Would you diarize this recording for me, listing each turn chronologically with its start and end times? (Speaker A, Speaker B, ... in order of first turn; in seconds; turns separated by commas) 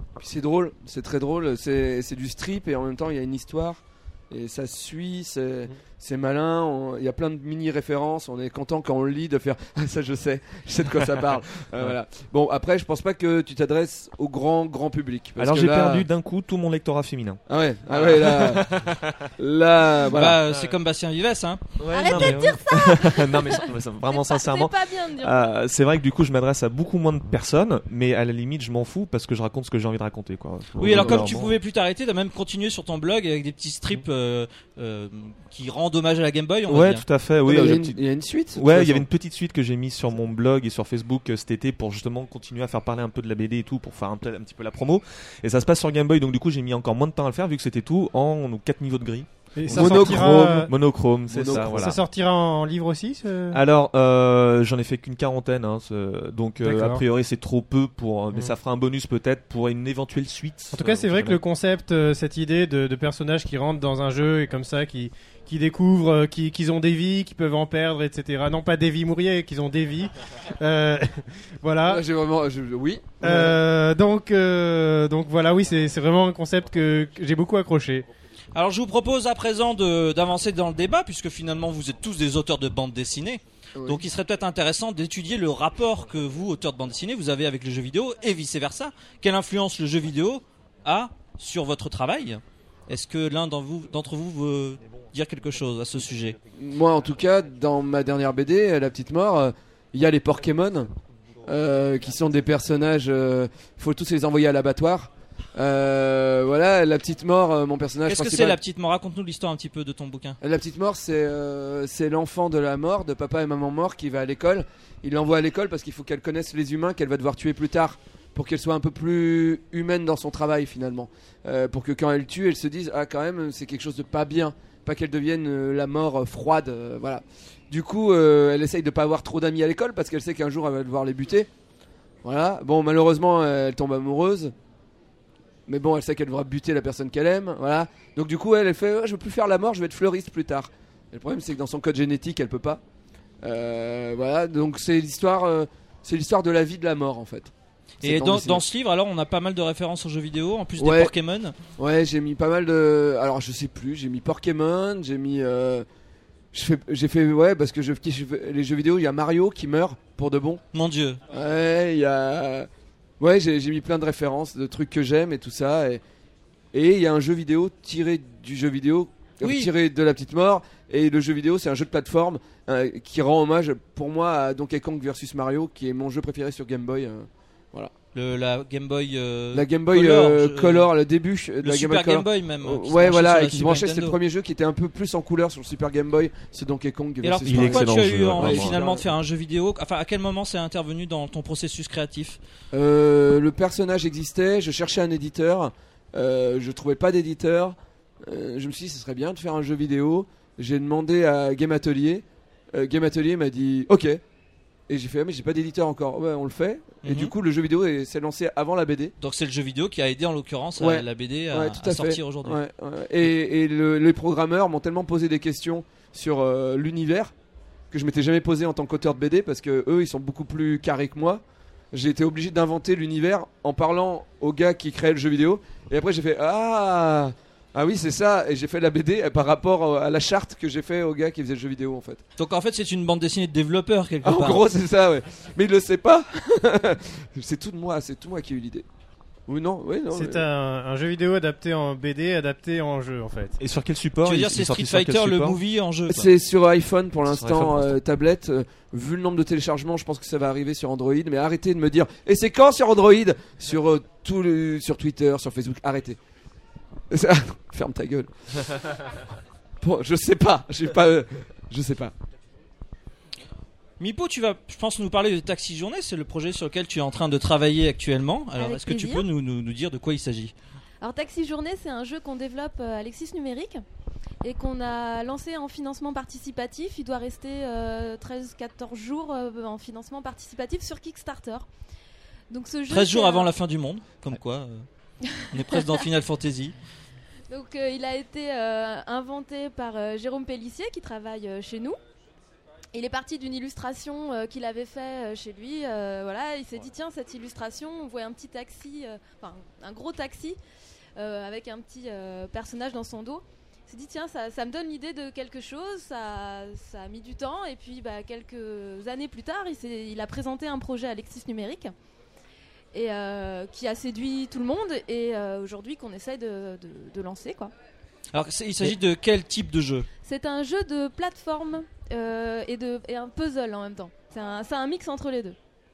Speaker A: 0.2-16.1, Speaker B: 15.4-19.3, Speaker A: 17.5-18.7, Speaker A: 19.4-20.4, Speaker B: 20.1-20.8, Speaker C: 20.1-21.6, Speaker B: 21.8-31.5, Speaker D: 21.9-25.6, Speaker C: 30.8-37.0, Speaker A: 30.9-31.4, Speaker B: 36.7-52.0, Speaker A: 37.5-39.0, Speaker E: 49.6-50.7, Speaker A: 49.7-50.7, Speaker A: 51.3-52.0, Speaker E: 51.5-53.6, Speaker B: 53.5-61.4, Speaker E: 56.6-57.0, Speaker E: 60.7-72.0, Speaker A: 71.8-73.6, Speaker E: 73.2-78.1, Speaker C: 78.5-96.4, Speaker A: 83.8-84.0, Speaker A: 96.6-100.9, Speaker A: 101.5-108.6, Speaker C: 108.1-110.4, Speaker A: 110.4-131.5, Speaker A: 132.2-134.5, Speaker A: 135.7-142.8, Speaker A: 143.4-148.6, Speaker C: 148.0-151.6, Speaker A: 150.8-151.1, Speaker A: 151.8-155.9, Speaker A: 156.5-160.6, Speaker C: 160.7-161.2, Speaker A: 161.3-162.7, Speaker A: 163.2-166.0, Speaker A: 166.7-177.9, Speaker C: 169.4-169.7, Speaker C: 178.1-180.9, Speaker A: 179.5-189.0, Speaker C: 181.6-184.2, Speaker C: 187.2-192.4, Speaker B: 187.4-188.8, Speaker A: 192.7-204.2, Speaker A: 204.9-209.1, Speaker C: 207.1-207.3, Speaker C: 209.2-212.6, Speaker A: 210.8-217.3, Speaker A: 217.9-221.4, Speaker A: 221.9-232.2, Speaker C: 232.4-234.6, Speaker A: 234.2-238.9, Speaker A: 239.5-240.5, Speaker E: 240.1-243.6, Speaker B: 243.6-245.6, Speaker C: 244.2-246.3, Speaker A: 246.1-256.2, Speaker B: 247.3-247.9, Speaker A: 257.1-259.0, Speaker A: 259.8-262.1, Speaker C: 264.0-270.5, Speaker D: 268.6-269.3, Speaker D: 271.0-273.8, Speaker D: 274.4-281.7, Speaker D: 282.5-283.5, Speaker C: 282.9-284.9, Speaker D: 285.4-285.8, Speaker C: 285.5-286.7, Speaker D: 287.5-292.0, Speaker D: 292.9-300.6, Speaker D: 301.2-311.9, Speaker D: 312.9-317.7, Speaker C: 318.3-320.1, Speaker D: 320.2-325.6